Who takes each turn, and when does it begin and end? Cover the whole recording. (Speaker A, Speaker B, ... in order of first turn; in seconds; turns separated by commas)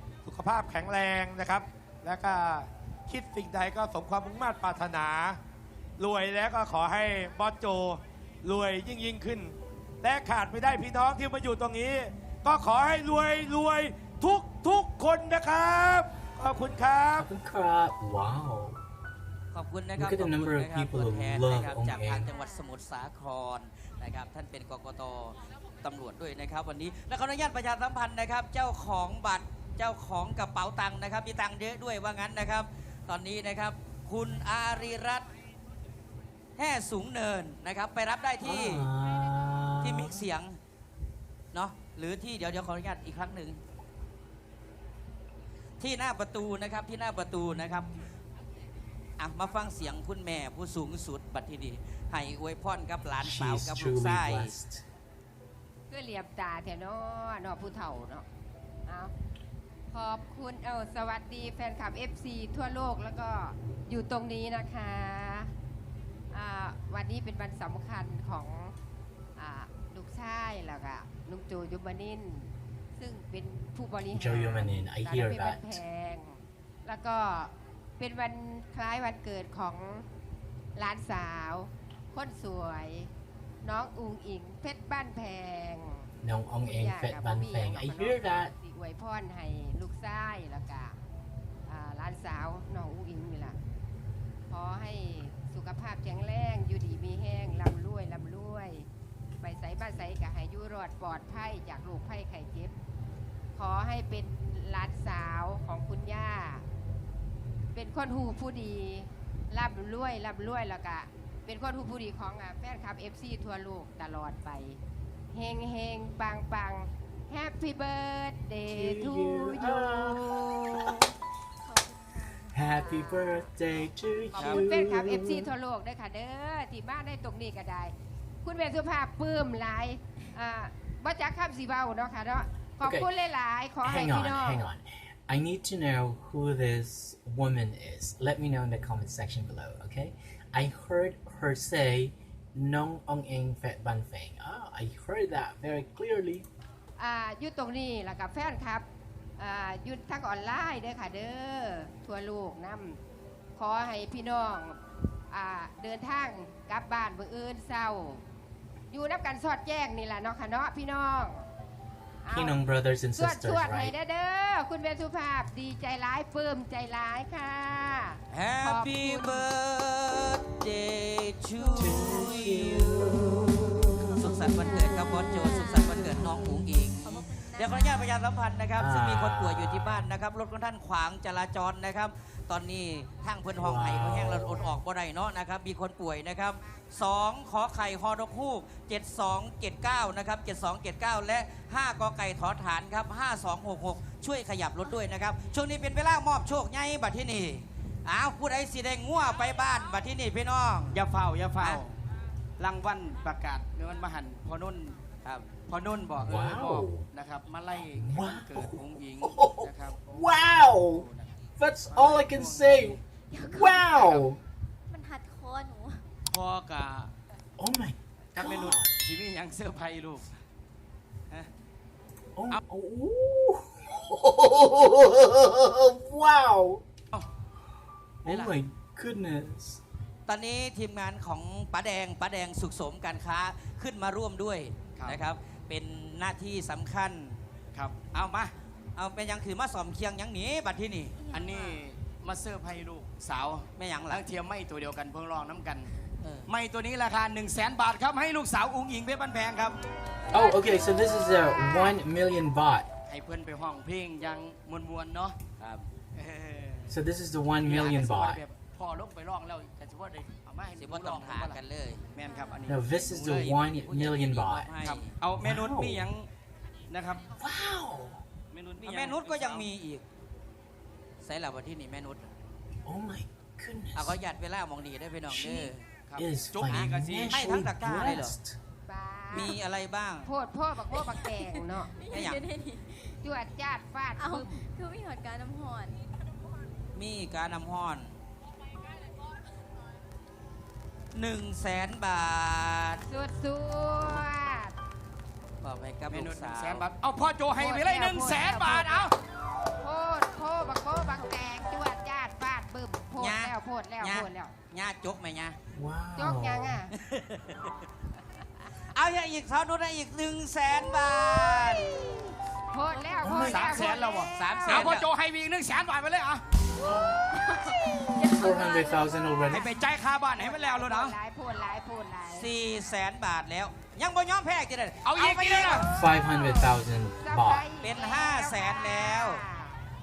Speaker A: 0.2-5.4, Speaker A: 6.0-17.3, Speaker B: 17.1-18.8, Speaker C: 19.5-35.3, Speaker B: 19.9-22.3, Speaker D: 22.3-22.7, Speaker C: 36.6-38.9, Speaker B: 38.4-40.2, Speaker C: 39.8-40.6, Speaker C: 41.5-43.6, Speaker C: 45.8-47.9, Speaker C: 49.2-54.5, Speaker B: 53.2-54.8, Speaker E: 55.9-58.2, Speaker E: 58.9-59.1, Speaker E: 59.9-65.5, Speaker E: 66.3-68.7, Speaker E: 69.3-80.1, Speaker B: 74.1-75.8, Speaker E: 80.8-83.1, Speaker E: 83.6-86.1, Speaker B: 86.2-88.5, Speaker E: 86.7-91.0, Speaker E: 91.7-93.6, Speaker E: 94.5-98.9, Speaker E: 99.4-102.7, Speaker E: 103.5-106.7, Speaker E: 107.7-114.8, Speaker E: 115.3-121.0, Speaker B: 118.7-121.0, Speaker D: 121.6-123.2, Speaker B: 122.5-125.5, Speaker E: 122.7-123.4, Speaker C: 124.3-124.6, Speaker E: 124.4-134.7, Speaker B: 132.8-133.1, Speaker B: 133.8-146.5, Speaker E: 147.0-148.8, Speaker E: 149.4-153.0, Speaker E: 153.6-154.8, Speaker E: 155.3-158.2, Speaker E: 158.9-161.4, Speaker E: 162.2-162.6, Speaker B: 162.3-163.9, Speaker E: 163.2-169.4, Speaker C: 168.3-173.2, Speaker D: 171.6-172.6, Speaker B: 171.7-174.5, Speaker D: 174.1-178.2, Speaker C: 174.2-201.0, Speaker B: 178.8-180.0, Speaker B: 183.5-184.7, Speaker F: 200.9-201.9, Speaker F: 202.6-205.0, Speaker F: 205.7-213.0, Speaker B: 206.1-207.1, Speaker B: 207.8-211.1, Speaker B: 211.6-214.4, Speaker D: 213.3-214.2, Speaker D: 214.9-216.0, Speaker F: 216.3-217.1, Speaker B: 217.6-218.9, Speaker F: 218.3-220.3, Speaker B: 222.3-226.8, Speaker B: 228.2-229.8, Speaker F: 228.2-228.5, Speaker C: 230.3-237.4, Speaker F: 234.9-235.2, Speaker F: 237.7-238.5, Speaker C: 238.9-241.2, Speaker D: 241.2-241.8, Speaker F: 241.3-245.9, Speaker C: 243.8-244.2, Speaker C: 246.2-246.5, Speaker F: 246.5-249.8, Speaker D: 250.3-252.0, Speaker B: 250.3-252.9, Speaker F: 253.1-255.3, Speaker C: 255.6-255.9, Speaker F: 256.1-256.9, Speaker B: 256.9-258.4, Speaker F: 257.6-261.6, Speaker C: 260.8-262.1, Speaker D: 262.0-262.7, Speaker F: 262.1-263.5, Speaker B: 262.7-264.7, Speaker C: 263.0-265.1, Speaker F: 264.8-266.3, Speaker B: 265.4-266.1, Speaker F: 266.9-267.3, Speaker B: 267.3-268.2, Speaker F: 268.5-269.6, Speaker C: 268.8-270.0, Speaker C: 271.2-272.2, Speaker B: 272.8-274.2, Speaker C: 273.9-275.8, Speaker B: 275.3-278.6, Speaker F: 276.1-277.5, Speaker C: 276.7-278.3, Speaker E: 278.9-279.6, Speaker C: 279.3-280.3, Speaker E: 280.2-282.0, Speaker D: 280.9-283.2, Speaker C: 282.1-282.4, Speaker E: 283.2-284.6, Speaker D: 284.2-286.0, Speaker C: 286.9-288.1, Speaker C: 291.1-293.0, Speaker E: 293.1-294.7, Speaker C: 295.6-296.9, Speaker F: 296.1-299.1, Speaker E: 297.6-299.1, Speaker E: 299.8-304.5, Speaker C: 303.2-305.6, Speaker B: 305.7-306.8, Speaker E: 306.2-306.9, Speaker C: 306.9-307.7, Speaker C: 308.9-312.3, Speaker E: 312.7-314.3, Speaker D: 312.9-314.0, Speaker B: 313.2-313.9, Speaker F: 313.5-316.4, Speaker C: 314.3-315.1, Speaker D: 317.3-319.2, Speaker B: 318.2-319.7, Speaker F: 319.5-321.1, Speaker E: 320.4-322.5, Speaker C: 322.3-325.9, Speaker F: 325.0-325.9, Speaker E: 325.6-329.8, Speaker B: 325.9-327.6, Speaker C: 327.8-329.4